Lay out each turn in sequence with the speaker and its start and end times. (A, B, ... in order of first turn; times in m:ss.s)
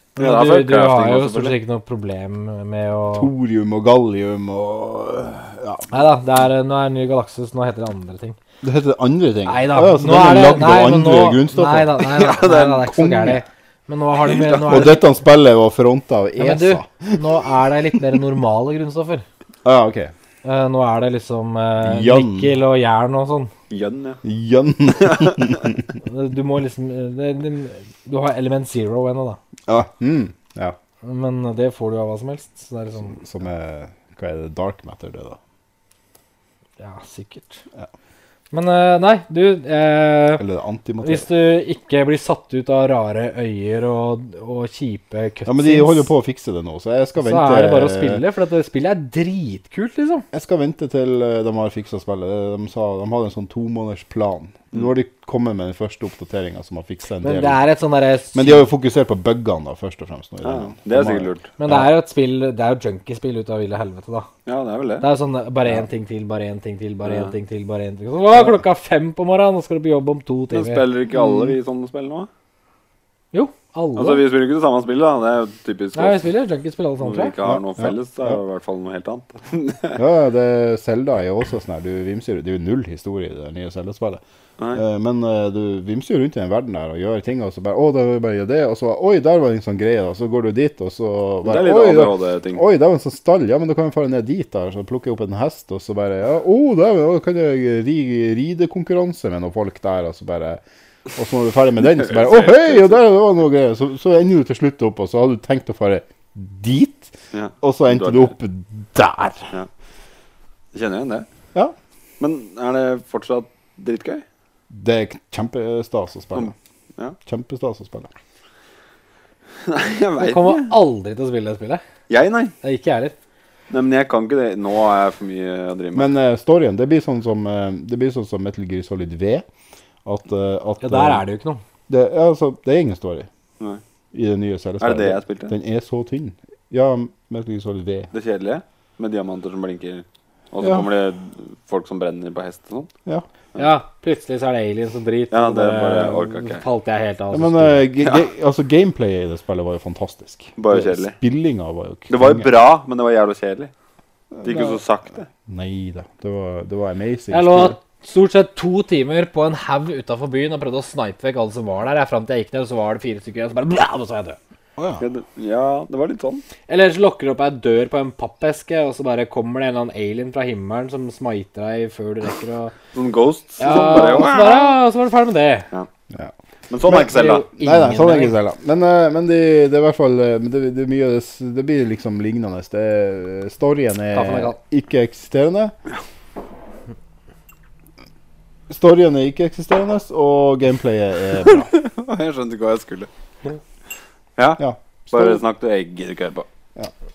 0:00.2-0:03.3 A
0:00.2-0:01.6 B
0:03.1-0:05.9 C
0:05.9-0:08.4 A
0:08.6-0:13.4 C
0:09.4-0:15.0 A
0:12.2-0:12.6 B
0:14.2-0:15.0 B
0:14.7-0:17.2 C
0:16.4-0:19.2 A
0:19.6-0:20.1 C
0:20.4-0:23.5 A
0:21.8-0:22.5 C
0:23.7-0:24.2 B
0:24.2-0:25.8 C
0:25.0-0:25.7 B
0:26.0-0:29.4 A
0:29.7-0:30.8 C
0:31.0-0:33.2 A
0:33.0-0:35.4 C
0:36.8-0:37.6 A
0:38.5-0:40.4 A
0:40.4-0:41.3 C
0:41.0-0:46.1 A
0:45.4-0:48.2 C
0:47.2-0:50.2 A
0:50.3-0:57.6 C
0:57.2-0:58.6 A
0:58.3-1:01.9 C
1:00.4-1:01.5 B
1:01.6-1:04.3 A
1:04.4-1:05.1 B
1:05.0-1:10.8 A
1:07.0-1:07.3 B
1:10.5-1:12.3 B
1:11.1-1:11.5 C
1:13.3-1:14.2 A
1:14.0-1:16.3 B
1:15.9-1:17.3 A
1:17.0-1:20.0 B
1:17.4-1:18.4 C
1:20.0-1:24.2 C
1:24.7-1:40.6 C
1:31.4-1:32.6 B
1:41.2-1:49.5 C
1:42.0-1:43.0 B
1:47.3-1:48.3 B
1:50.7-1:51.3 B
1:52.2-1:54.2 B
1:54.7-1:56.5 C
1:56.3-1:57.2 B
1:57.2-1:58.1 C
1:59.6-2:00.7 B
2:00.2-2:01.8 A
2:02.1-2:02.5 B
2:02.6-2:03.1 A
2:03.7-2:06.1 B
2:05.9-2:09.4 C
2:10.0-2:11.2 C
2:10.8-2:11.6 A
2:11.9-2:13.3 C
2:14.1-2:18.1 C
2:14.8-2:15.5 B
2:18.1-2:22.9 B
2:20.6-2:20.9 C
2:23.6-2:27.9 A
2:25.3-2:26.6 B
2:27.3-2:32.5 C
2:30.6-2:31.2 B
2:32.1-2:33.7 B
2:34.3-2:34.8 C
2:34.4-2:35.3 B
2:35.4-2:37.8 C
2:37.3-2:44.4 A
2:44.8-2:45.0 C
2:45.0-2:46.4 B
2:46.7-2:52.7 A
2:52.9-2:54.8 B
2:53.6-2:55.7 A
2:56.7-2:57.5 B
2:56.8-3:05.7 C
2:56.9-2:58.4 A
3:04.1-3:04.6 A
3:08.7-3:11.7 C
3:11.4-3:13.1 B
3:14.4-3:16.5 B
3:14.6-3:15.4 C